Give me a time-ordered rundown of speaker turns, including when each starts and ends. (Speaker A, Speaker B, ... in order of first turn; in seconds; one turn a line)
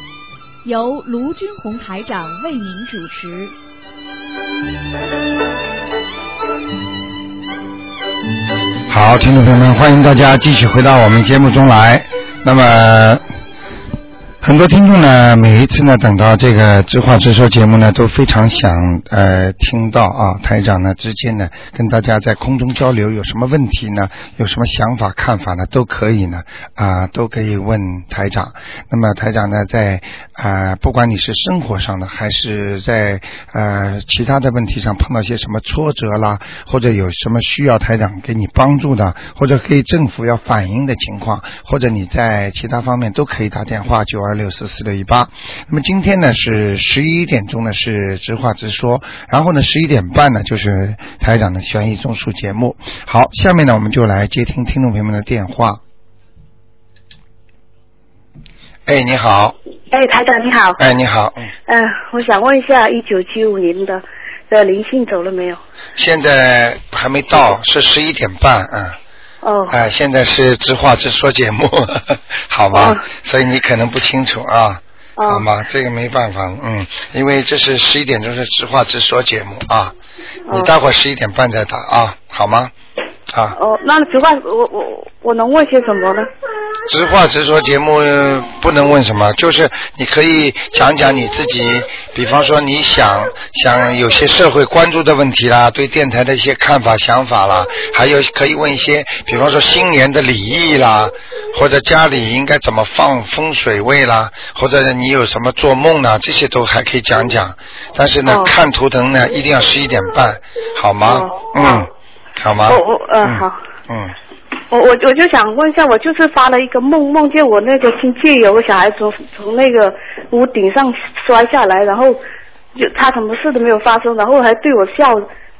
Speaker A: 0.6-3.5
Speaker B: 8.9-13.2
Speaker B: 14.4-55.8
Speaker B: 58.9-59.6
Speaker C: 59.9-60.8
Speaker B: 60.8-61.5
Speaker C: 61.7-65.6
Speaker B: 66.0-69.0
Speaker C: 69.4-69.8
Speaker B: 69.7-79.9
Speaker C: 72.7-73.0
Speaker C: 75.2-75.5
Speaker B: 80.5-82.7
Speaker B: 83.3-83.6
Speaker C: 83.5-86.3
Speaker B: 86.9-114.2
Speaker C: 108.2-108.5
Speaker C: 111.0-111.9
Speaker C: 112.7-113.6
Speaker C: 114.7-122.2
Speaker C: 122.8-125.2